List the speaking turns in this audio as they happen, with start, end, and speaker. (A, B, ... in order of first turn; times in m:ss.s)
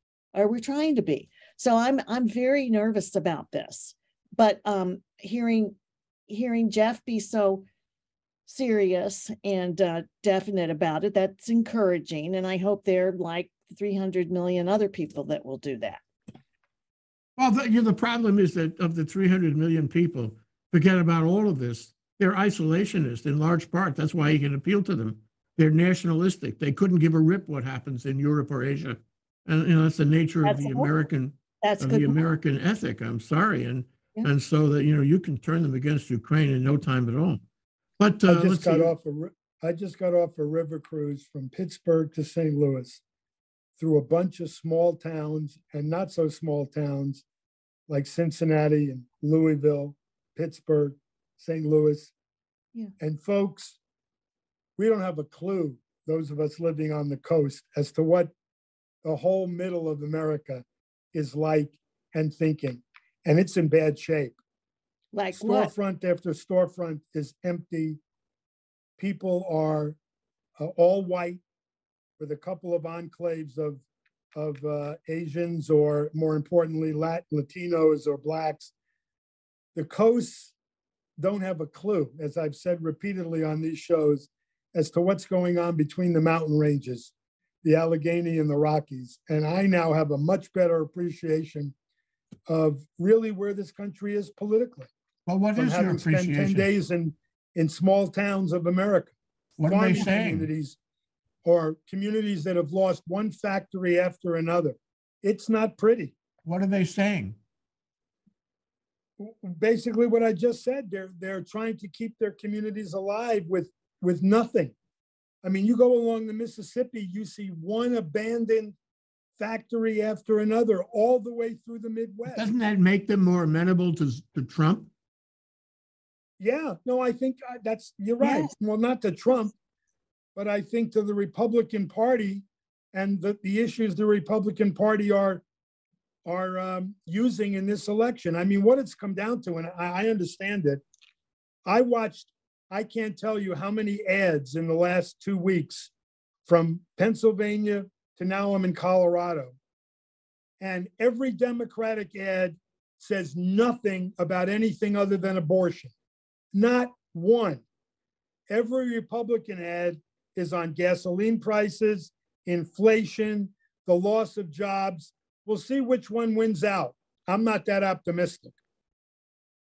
0:00.3-0:05.8 A
0:06.3-0:07.6 A
0:08.5-0:16.0 A
0:17.4-0:37.4 B
0:30.4-0:30.9 A
0:31.6-0:32.2 A
0:38.0-0:38.9 B
0:38.3-0:43.0 C
0:43.8-0:47.2 C
0:47.9-0:52.1 C
0:53.0-0:53.8 C
0:54.8-0:58.3 C
0:59.0-1:04.4 C
1:05.1-1:05.7 A
1:05.3-1:08.0 C
1:09.0-1:10.0 C
1:10.6-1:11.4 C
1:12.2-1:13.8 C
1:14.4-1:18.7 C
1:19.8-1:20.5 C
1:21.2-1:27.1 C
1:27.6-1:31.7 C
1:32.5-1:34.9 C
1:35.3-1:36.7 B
1:35.6-1:39.1 C
1:39.6-1:40.5 B
1:39.7-1:40.8 C
1:41.4-1:46.2 C
1:46.4-1:47.4 B
1:49.2-1:54.7 C
1:55.4-1:58.8 C
1:59.4-2:02.5 C
2:02.3-2:04.9 B
2:06.4-2:09.5 C
2:08.2-2:08.5 A
2:10.4-2:15.4 C
2:16.2-2:20.8 C
2:21.7-2:25.9 C
2:26.5-2:29.6 C
2:30.6-2:35.9 C
2:36.5-2:37.6 C
2:38.5-2:48.6 C